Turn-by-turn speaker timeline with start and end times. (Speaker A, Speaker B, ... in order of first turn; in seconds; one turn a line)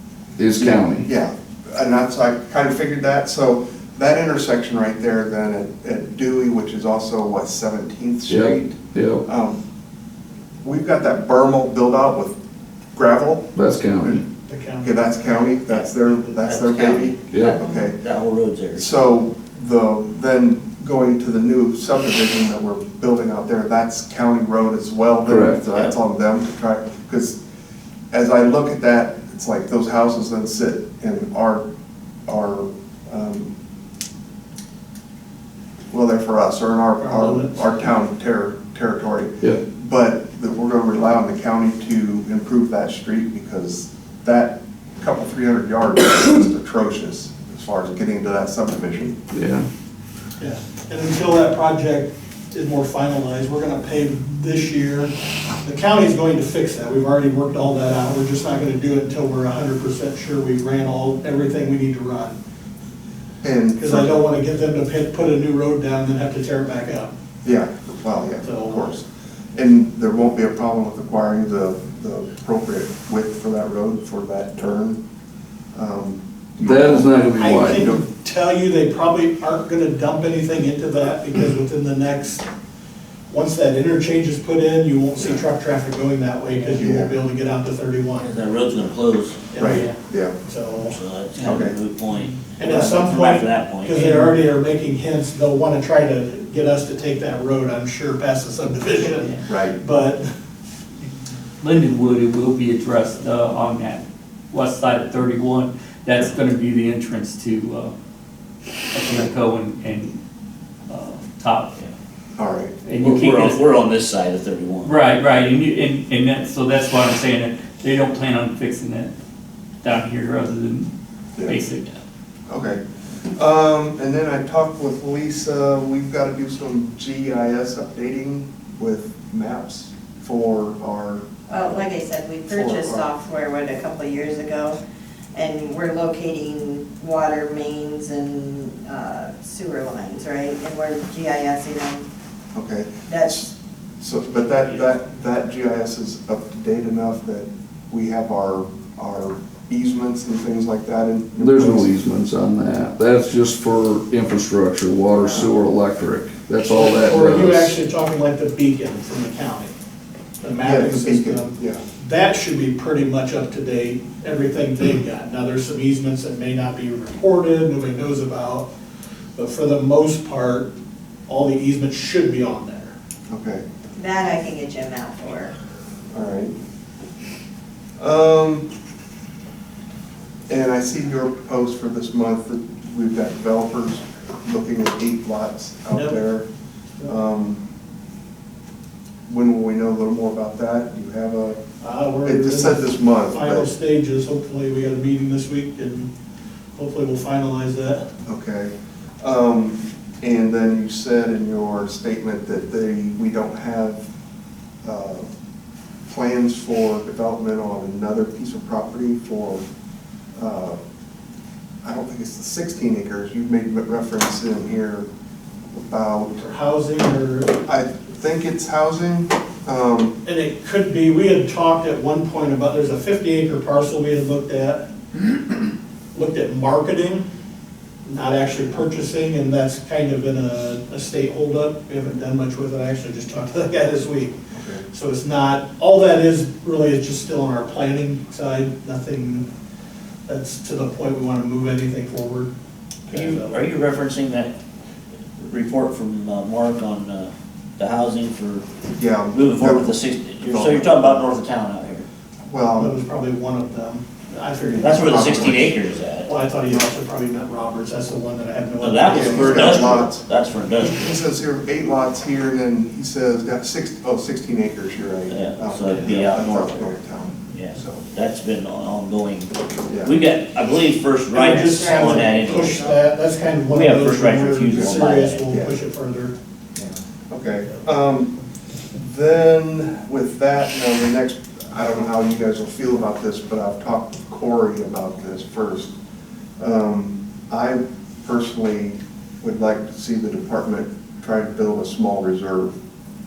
Speaker A: 0.4-1.1
Speaker B: 0.6-9.6
Speaker A: 8.3-9.2
Speaker B: 10.6-12.4
Speaker B: 12.9-14.2
Speaker A: 13.5-14.2
Speaker C: 14.5-15.6
Speaker B: 14.8-18.0
Speaker C: 16.1-16.4
Speaker D: 16.4-18.9
Speaker A: 17.3-17.6
Speaker E: 17.5-17.9
Speaker B: 18.8-27.4
Speaker A: 25.3-25.6
Speaker B: 28.1-31.6
Speaker B: 32.3-33.5
Speaker B: 35.9-49.2
Speaker C: 37.0-37.6
Speaker A: 49.3-49.7
Speaker C: 50.4-62.4
Speaker B: 63.4-64.2
Speaker C: 63.8-67.1
Speaker B: 67.4-75.0
Speaker C: 68.4-69.0
Speaker B: 75.7-77.1
Speaker A: 76.6-77.9
Speaker C: 77.4-82.4
Speaker B: 77.7-78.0
Speaker C: 83.3-88.4
Speaker B: 86.7-87.2
Speaker D: 88.2-89.5
Speaker C: 89.5-91.0
Speaker B: 89.6-90.3
Speaker F: 89.6-89.9
Speaker D: 90.8-94.0
Speaker F: 91.3-92.3
Speaker B: 91.4-91.8
Speaker C: 92.6-100.2
Speaker F: 94.0-94.3
Speaker B: 99.5-99.8
Speaker F: 101.6-107.9
Speaker F: 108.9-110.2
Speaker F: 110.9-111.8
Speaker B: 112.4-112.7
Speaker F: 112.8-113.6
Speaker D: 113.0-114.9
Speaker F: 114.8-119.1
Speaker F: 119.8-120.9
Speaker F: 121.4-122.0
Speaker B: 122.5-122.8
Speaker B: 123.3-131.9
Speaker E: 131.5-134.8
Speaker B: 132.5-133.1
Speaker E: 135.3-142.1
Speaker B: 142.5-151.9
Speaker E: 143.1-143.4
Speaker A: 151.4-157.8
Speaker B: 155.2-155.5
Speaker C: 156.7-159.7
Speaker C: 160.4-168.7
Speaker B: 160.6-161.8
Speaker C: 169.3-170.7
Speaker C: 171.3-172.9
Speaker B: 173.3-173.6
Speaker E: 173.9-175.5
Speaker B: 176.1-176.5
Speaker B: 178.0-178.7
Speaker B: 180.5-186.5
Speaker C: 185.9-186.2
Speaker B: 187.0-187.6
Speaker B: 189.3-191.6
Speaker C: 191.8-196.1
Speaker B: 192.2-193.7
Speaker C: 196.8-198.1
Speaker B: 198.2-204.1
Speaker B: 204.8-205.3
Speaker B: 206.1-209.6
Speaker B: 210.3-210.8
Speaker B: 211.8-215.1
Speaker B: 215.8-216.4
Speaker C: 216.4-217.6
Speaker B: 217.6-220.2
Speaker C: 220.2-225.4
Speaker C: 226.1-227.2
Speaker C: 228.0-234.3
Speaker B: 234.5-234.8
Speaker C: 234.9-239.5
Speaker C: 240.2-242.5
Speaker C: 243.1-243.6
Speaker D: 243.1-244.5
Speaker D: 245.4-248.6
Speaker B: 249.0-251.3
Speaker D: 249.3-252.1
Speaker B: 252.5-253.0
Speaker C: 252.8-255.5
Speaker B: 254.7-255.8
Speaker D: 254.8-256.3
Speaker C: 256.2-259.8
Speaker D: 258.8-261.1
Speaker B: 259.1-260.2
Speaker B: 260.8-268.1
Speaker D: 265.3-266.9
Speaker D: 267.5-272.9
Speaker B: 269.9-270.1
Speaker C: 271.3-276.3
Speaker E: 271.5-273.0
Speaker D: 273.7-275.5
Speaker B: 275.5-275.8
Speaker B: 277.3-278.4
Speaker B: 278.9-285.9
Speaker B: 286.6-292.7